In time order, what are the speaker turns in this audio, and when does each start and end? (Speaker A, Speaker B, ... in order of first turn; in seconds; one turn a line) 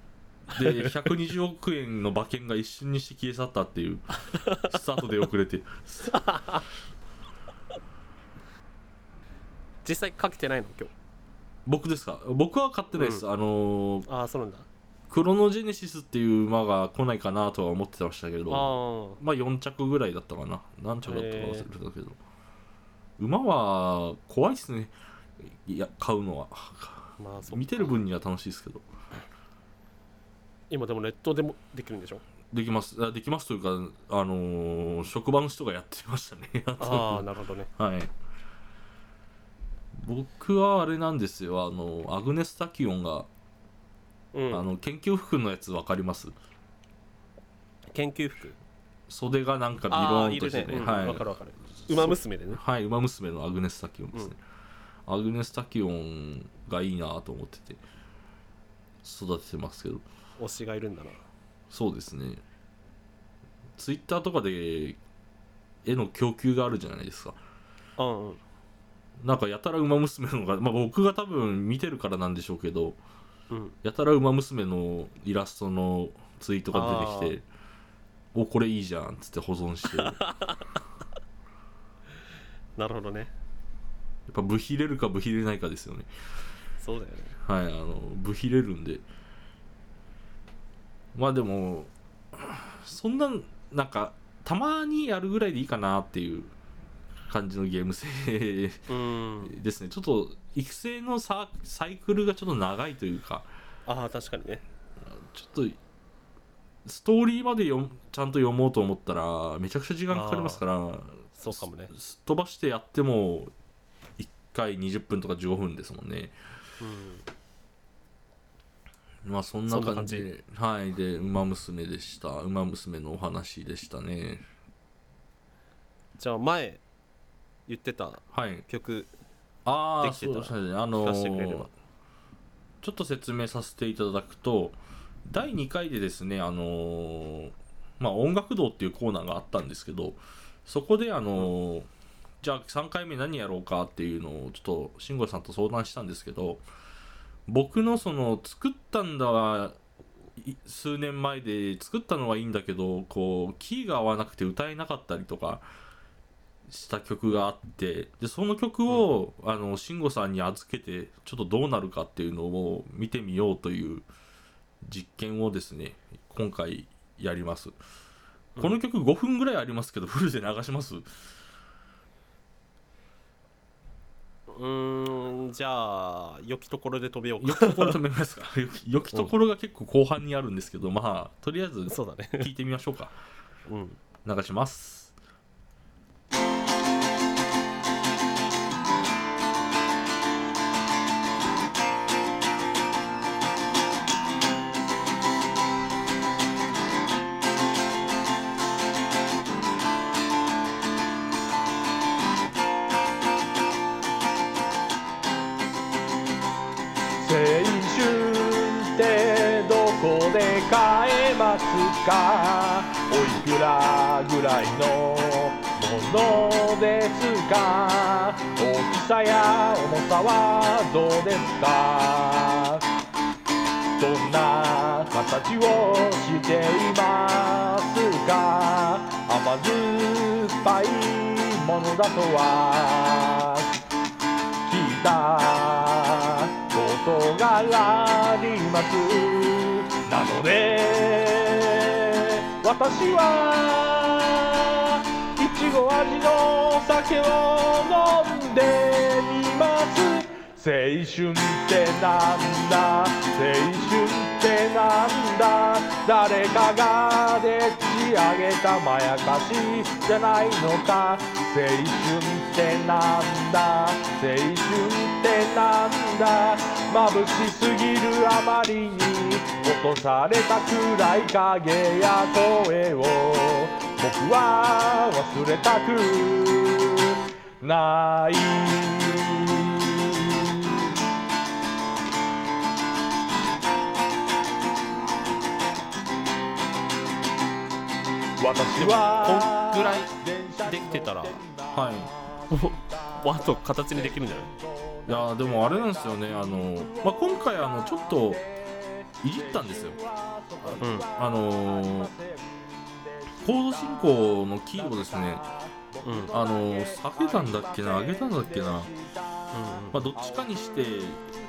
Speaker A: 0.5-1.1
Speaker B: 0.5-6.2
Speaker A: 4.2-4.7
Speaker A: 6.1-6.7
Speaker A: 9.8-10.9
Speaker B: 11.6-14.1
Speaker A: 12.9-13.2
Speaker A: 14.1-14.7
Speaker B: 15.1-22.2
Speaker A: 18.5-19.2
Speaker A: 21.0-21.7
Speaker B: 23.2-28.9
Speaker A: 27.2-27.9
Speaker A: 30.7-32.2
Speaker B: 32.5-38.1
Speaker A: 36.8-37.7
Speaker B: 39.9-43.3
Speaker A: 44.3-44.6
Speaker B: 44.5-46.3
Speaker A: 47.9-48.6
Speaker B: 49.1-51.3
Speaker A: 49.9-52.6
Speaker B: 51.9-54.4
Speaker B: 55.0-57.8
Speaker B: 59.0-60.0
Speaker A: 60.4-61.2
Speaker B: 61.7-62.4
Speaker B: 63.8-65.0
Speaker B: 65.8-67.4
Speaker A: 68.0-68.4
Speaker B: 69.2-73.0
Speaker A: 73.5-73.8
Speaker B: 73.8-77.4
Speaker A: 76.7-77.4
Speaker B: 78.3-80.2
Speaker A: 80.0-80.7
Speaker A: 82.8-83.3
Speaker B: 84.3-86.1
Speaker A: 86.8-87.4
Speaker B: 87.4-89.0
Speaker B: 91.1-96.5
Speaker B: 97.3-98.9
Speaker A: 98.9-99.5
Speaker B: 99.4-103.5
Speaker A: 103.9-104.6
Speaker B: 105.0-105.8
Speaker B: 106.8-113.5
Speaker A: 110.1-110.6
Speaker A: 111.3-111.9
Speaker B: 114.2-116.3
Speaker A: 116.8-117.3
Speaker B: 119.2-124.4
Speaker A: 119.7-120.3
Speaker A: 126.2-126.8
Speaker A: 127.7-129.1
Speaker B: 128.3-128.7
Speaker B: 129.6-131.7
Speaker A: 130.0-131.7
Speaker B: 132.8-141.9
Speaker B: 142.4-146.6
Speaker B: 147.5-149.8
Speaker B: 150.3-155.6
Speaker B: 156.7-164.1
Speaker B: 164.8-167.7
Speaker B: 168.6-171.1
Speaker A: 174.5-178.0
Speaker B: 177.4-183.1
Speaker A: 181.9-182.5
Speaker A: 183.7-184.0
Speaker B: 184.2-185.1
Speaker C: 207.2-222.8
Speaker C: 224.0-233.7
Speaker C: 234.7-280.9
Speaker C: 288.4-311.2
Speaker A: 288.7-290.1
Speaker A: 290.6-291.4
Speaker B: 291.7-292.1
Speaker A: 292.5-294.5
Speaker B: 295.1-298.4
Speaker B: 299.2-300.0
Speaker A: 300.8-301.1
Speaker B: 301.1-302.1
Speaker B: 303.4-305.4
Speaker A: 306.0-306.3
Speaker B: 306.3-308.9
Speaker A: 309.5-310.1
Speaker B: 309.9-311.2